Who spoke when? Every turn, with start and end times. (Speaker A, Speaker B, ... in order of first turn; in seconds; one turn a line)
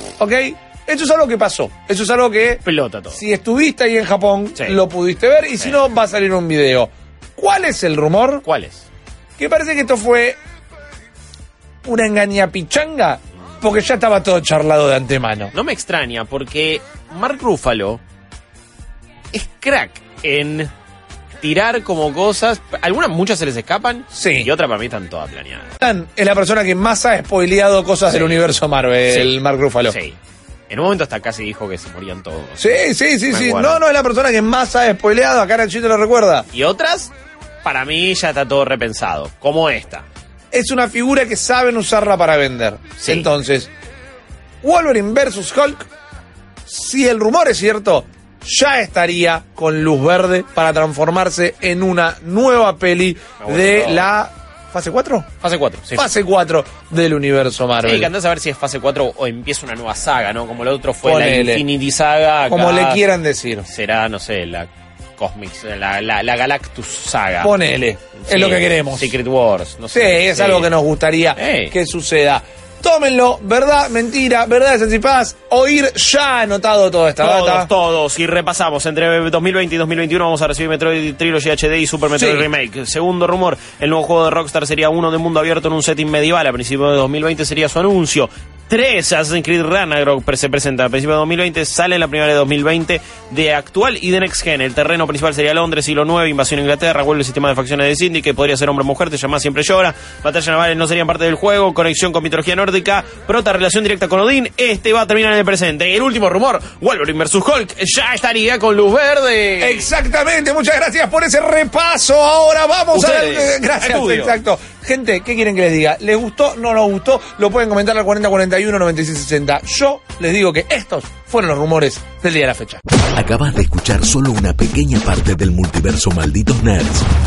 Speaker A: 0.2-8.4
Speaker B: 2.6-3.2
Speaker B: 8.4-8.8
Speaker A: 9.4-10.4
Speaker A: 11.8-15.5
Speaker B: 15.5-18.0
Speaker B: 19.3-20.7
Speaker B: 21.4-25.8
Speaker A: 24.1-24.5
Speaker A: 25.8-30.0
Speaker B: 28.1-28.4
Speaker B: 29.1-29.3
Speaker B: 29.9-30.2
Speaker B: 30.7-33.8
Speaker A: 32.6-36.5
Speaker B: 36.5-37.1
Speaker B: 37.6-40.1
Speaker A: 40.5-43.7
Speaker B: 43.0-43.3
Speaker A: 44.6-45.9
Speaker A: 46.6-55.3
Speaker B: 53.4-54.1
Speaker B: 55.4-56.1
Speaker A: 55.9-58.1
Speaker B: 57.8-63.0
Speaker A: 61.0-61.6
Speaker A: 62.5-63.7
Speaker B: 63.7-67.5
Speaker A: 67.4-69.1
Speaker B: 68.2-70.7
Speaker A: 69.9-77.7
Speaker B: 71.3-71.8
Speaker B: 77.2-109.9
Speaker A: 82.1-82.5
Speaker A: 109.6-122.8
Speaker B: 112.9-114.4
Speaker C: 123.1-127.1